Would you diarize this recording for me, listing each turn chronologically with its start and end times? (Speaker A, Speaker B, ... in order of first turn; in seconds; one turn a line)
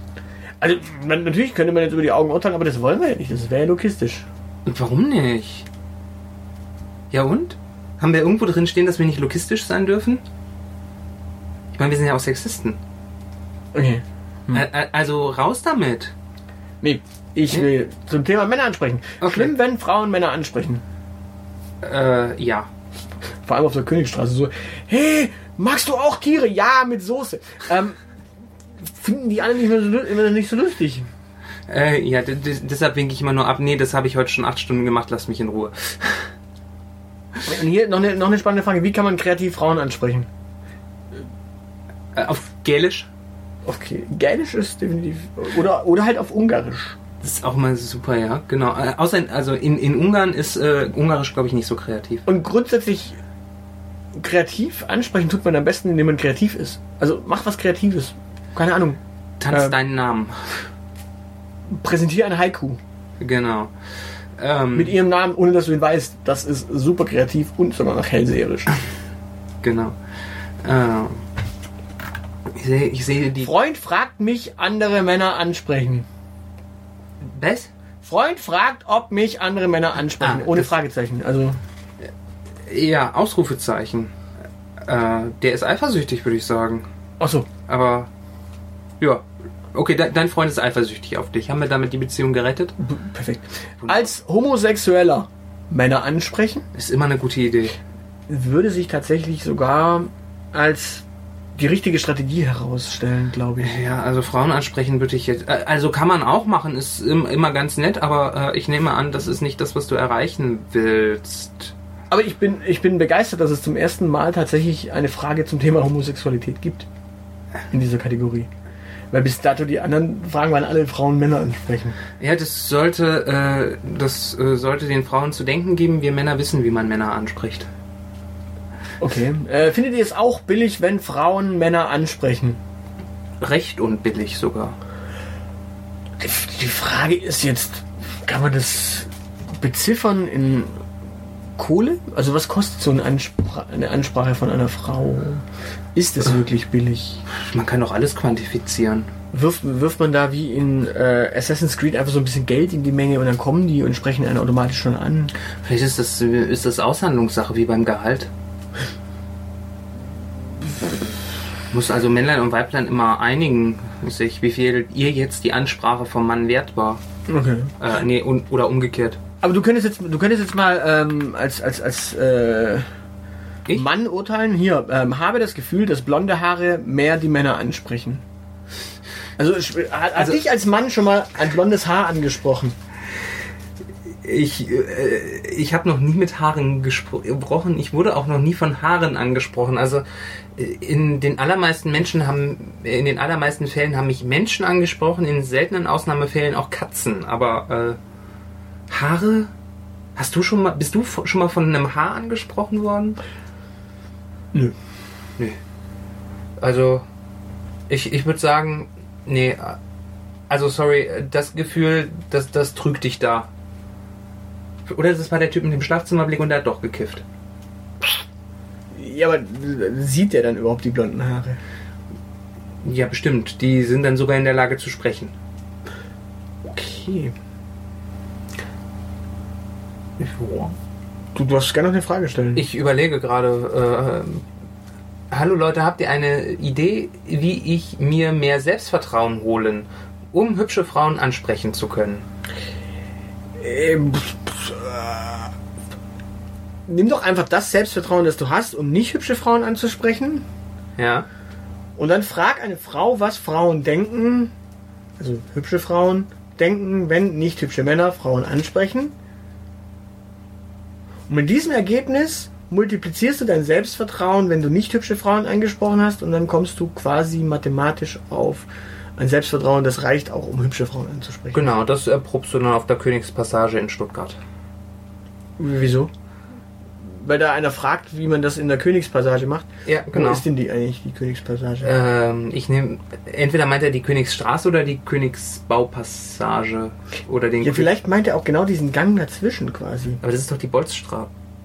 Speaker A: 0.6-4.3
Speaker B: 4.7-5.7
Speaker B: 7.1-10.2
Speaker B: 11.7-12.8
Speaker A: 13.7-14.7
Speaker B: 14.5-16.1
Speaker A: 16.8-20.8
Speaker B: 19.2-19.5
Speaker B: 21.8-22.7
Speaker A: 23.4-28.0
Speaker A: 28.9-31.1
Speaker B: 31.7-36.3
Speaker A: 37.5-40.3
Speaker B: 42.1-43.1
Speaker A: 43.6-47.0
Speaker B: 47.2-52.2
Speaker A: 52.3-53.2
Speaker A: 54.2-59.8
Speaker B: 59.4-60.7
Speaker A: 61.7-62.8
Speaker B: 63.2-63.7
Speaker B: 64.4-65.0
Speaker A: 64.7-68.8
Speaker B: 69.6-70.0
Speaker B: 70.6-71.2
Speaker B: 72.5-73.5
Speaker A: 73.4-76.1
Speaker B: 77.2-77.7
Speaker A: 78.0-81.6
Speaker B: 80.2-80.7
Speaker B: 82.7-84.1
Speaker B: 84.8-86.9
Speaker A: 87.2-87.5
Speaker B: 87.7-88.1
Speaker B: 89.0-92.7
Speaker A: 92.8-96.7
Speaker B: 93.8-94.1
Speaker B: 96.7-97.8
Speaker A: 98.3-101.0
Speaker A: 101.6-103.8
Speaker B: 103.6-111.7
Speaker A: 112.1-116.9
Speaker A: 117.7-118.5
Speaker A: 119.1-122.0
Speaker B: 122.2-127.7
Speaker A: 129.0-132.6
Speaker B: 133.4-134.8
Speaker A: 136.2-140.8
Speaker A: 141.6-145.4
Speaker A: 145.9-147.2
Speaker B: 147.3-149.1
Speaker A: 149.3-155.3
Speaker B: 155.6-158.3
Speaker B: 161.7-167.0
Speaker A: 167.3-167.8
Speaker B: 167.8-169.2
Speaker A: 169.4-172.8
Speaker A: 173.7-178.2
Speaker A: 179.4-182.8
Speaker B: 184.2-190.1
Speaker B: 190.6-198.0
Speaker B: 198.9-199.5
Speaker B: 200.2-203.2
Speaker B: 206.6-207.1
Speaker B: 207.9-209.8
Speaker B: 210.5-213.5
Speaker B: 214.9-217.2
Speaker A: 218.9-221.6
Speaker B: 222.8-225.3
Speaker A: 226.7-227.3
Speaker B: 230.2-230.8
Speaker A: 231.3-232.7
Speaker B: 232.6-234.4
Speaker B: 235.3-242.2
Speaker A: 243.6-245.5
Speaker A: 246.9-250.4
Speaker B: 251.0-251.3
Speaker A: 252.0-254.5
Speaker A: 255.2-259.1
Speaker A: 261.3-271.7
Speaker B: 271.5-274.4
Speaker A: 275.6-276.1
Speaker A: 277.1-281.9
Speaker B: 279.9-280.4
Speaker B: 281.8-287.9
Speaker A: 287.6-290.2
Speaker B: 290.2-291.3